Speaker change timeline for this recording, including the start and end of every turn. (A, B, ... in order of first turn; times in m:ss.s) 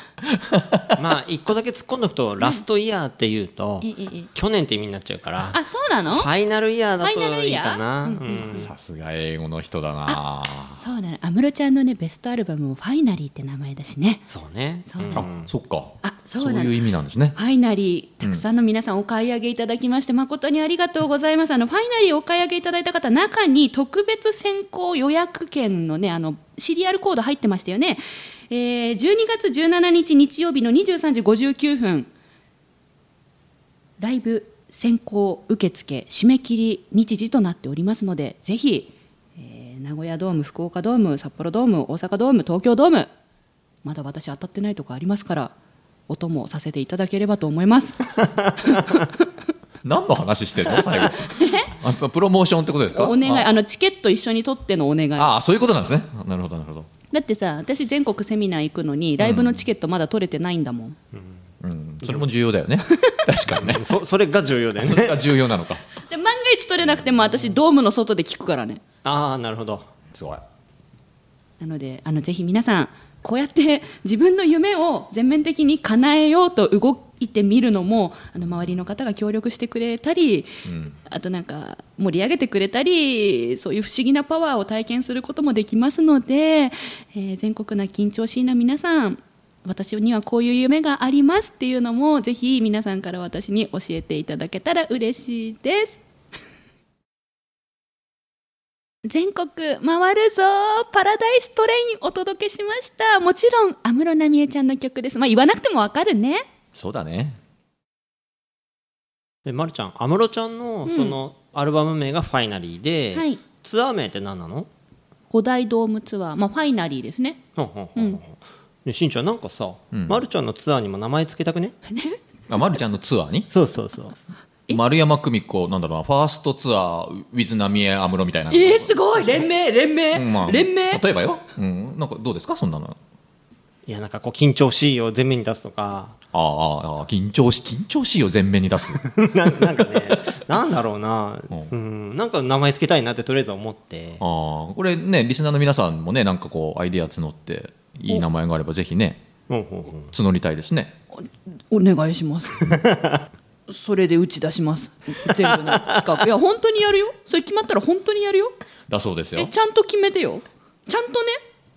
0:00.2-0:01.0 A
0:00.9-0:08.7 B
0:03.8-0:04.3 C
0:05.5-0:06.3 C
0:07.0-0:08.7 C
0:08.3-0:10.8 A
0:10.8-0:14.2 C
0:14.3-0:15.5 B
0:14.9-0:15.2 C
0:15.1-0:17.4 A
0:16.0-0:16.7 C
0:17.3-0:32.1 C
0:34.0-0:43.1 C
0:43.8-0:45.5 C
0:46.1-0:49.2 C
0:49.8-0:53.5 A
0:51.2-0:51.7 C
0:52.9-0:55.3 C
0:55.2-0:56.9 A
0:57.1-1:01.0 C
0:59.2-0:59.6 A
1:01.6-1:03.9 A
1:03.6-1:05.3 B
1:04.8-1:05.8 A
1:06.0-1:08.8 C
1:09.0-1:09.9 B
1:10.1-1:10.4 A
1:11.6-1:20.5 C
1:20.6-1:21.0 A
1:21.0-1:36.0 C
1:39.0-1:46.4 C
1:46.7-1:47.4 A
1:49.4-1:54.7 B
1:50.8-1:51.2 C
1:53.1-1:53.4 C
1:55.3-1:57.4 C
1:57.6-2:01.8 B
1:59.9-2:00.2 A
2:01.9-2:02.2 C
2:02.5-2:03.5 A
2:03.5-2:04.1 B
2:04.7-2:09.4 A
2:08.5-2:11.0 C
2:10.1-2:13.0 A
2:13.9-2:16.2 B
2:16.3-2:19.0 A
2:19.1-2:24.2 B
2:24.2-2:29.2 A
2:29.5-2:30.1 B
2:30.1-2:31.0 A
2:31.1-2:32.8 C
2:32.8-2:33.2 B
2:33.7-2:38.5 C
2:38.9-2:39.5 A
2:39.4-2:41.4 C